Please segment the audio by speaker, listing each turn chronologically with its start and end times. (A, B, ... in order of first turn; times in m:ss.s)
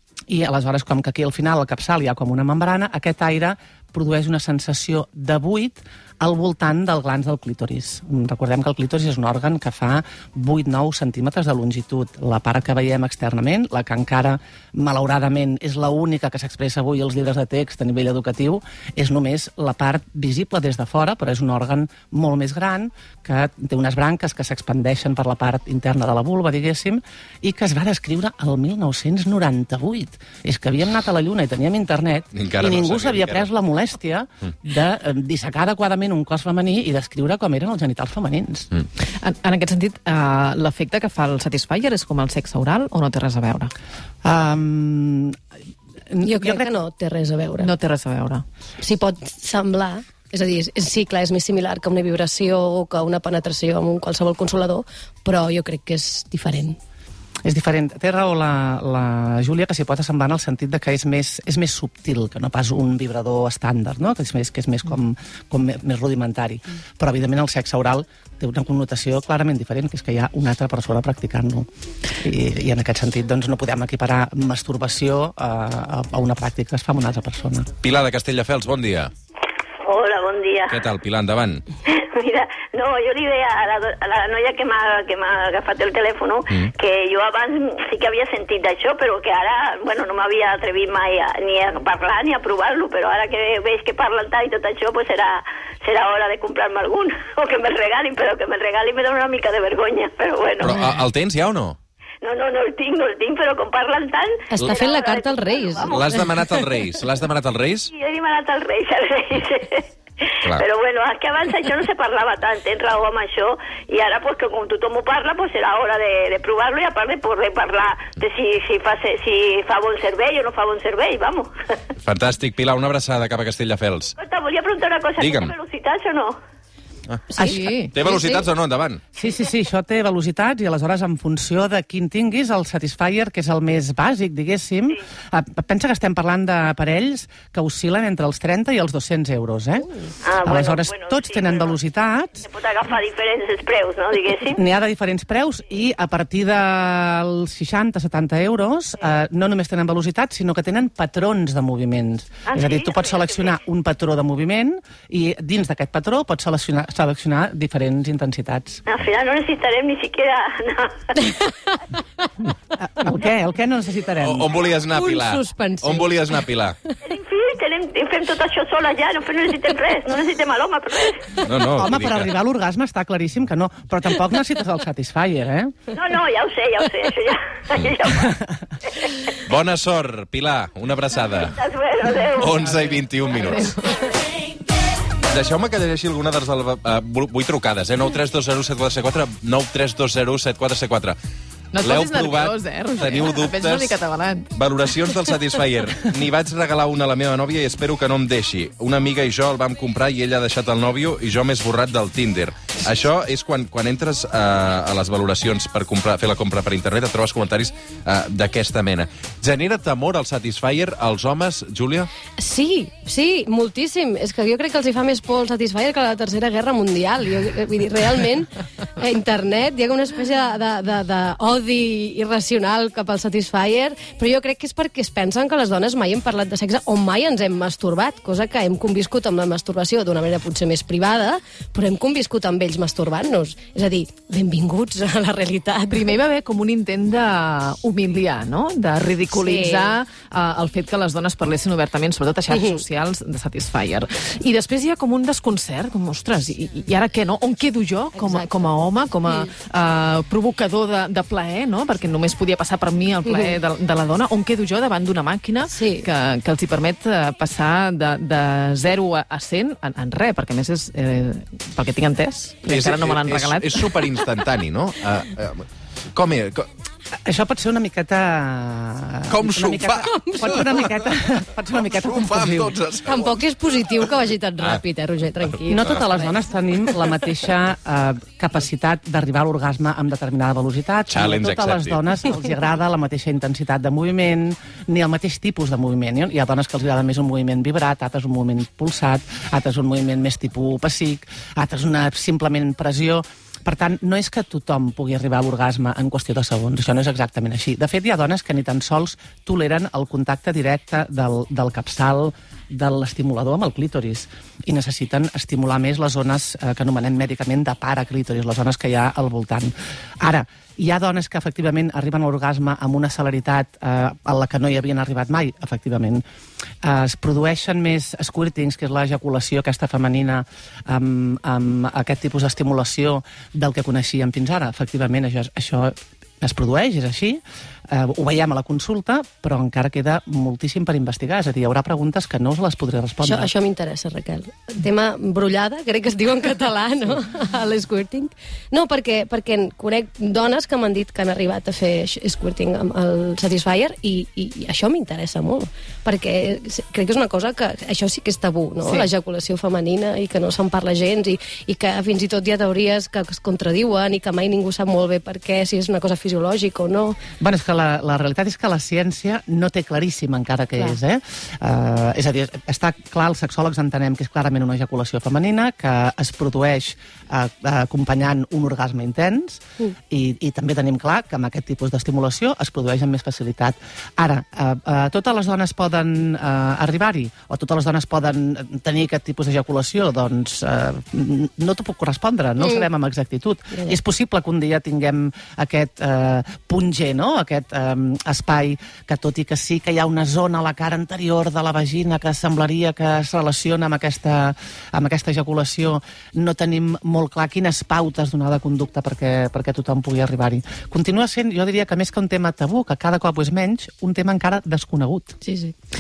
0:00.3-0:38.7 A
0:32.3-0:33.4 B
0:39.2-0:43.7 C
0:44.2-0:45.4 A
0:46.1-0:46.7 A
0:46.2-0:47.7 D
0:47.6-0:48.4 C
0:48.8-0:56.8 D
0:57.4-1:17.7 A
1:17.8-1:19.1 B
1:19.8-1:20.8 E
1:20.7-1:21.6 B
1:21.9-1:40.9 E
1:40.6-1:41.8 B
1:42.2-1:46.2 E
1:44.5-1:46.6 D
1:45.9-1:47.9 B
1:47.9-1:49.9 E
1:50.4-2:01.5 E
2:02.0-2:04.2 B
2:04.2-2:06.4 E
2:05.2-2:05.5 B
2:07.1-2:09.0 B
2:07.3-2:08.4 C
2:07.4-2:07.6 A
2:09.2-2:22.5 A
2:20.2-2:21.8 E
2:22.4-2:24.6 E
2:24.5-2:38.8 A
2:32.5-2:33.6 E
2:38.9-2:41.3 E
2:42.8-2:44.6 A
2:44.2-2:46.8 B
2:44.9-2:46.4 D
2:47.0-2:51.4 E
2:51.4-2:52.3 B
2:51.7-2:55.8 A
2:55.9-2:58.4 E
2:58.2-2:58.5 A
2:59.0-2:59.3 E
2:59.4-3:01.6 B
3:01.3-3:02.8 E
3:02.4-3:03.8 B
3:02.7-3:04.1 C
3:05.3-3:11.2 B
3:11.7-3:14.5 C
3:11.8-3:14.0 B
3:14.5-3:32.1 B
3:32.4-3:56.1 D
3:55.9-4:24.1 C
3:59.3-4:00.0 D
4:02.5-4:02.8 D
4:08.2-4:08.5 D
4:13.2-4:13.6 D
4:15.7-4:16.1 D
4:22.7-4:26.7 B
4:27.2-4:32.8 A
4:29.3-4:31.1 B
4:30.1-4:30.6 D
4:31.7-4:33.4 B
4:33.1-4:36.4 D
4:35.7-5:16.2 A
4:41.1-4:42.0 B
5:16.8-5:33.5 A
5:33.2-5:57.2 D
5:48.8-5:49.1 C
5:57.4-6:45.4 A
6:45.4-6:45.7 D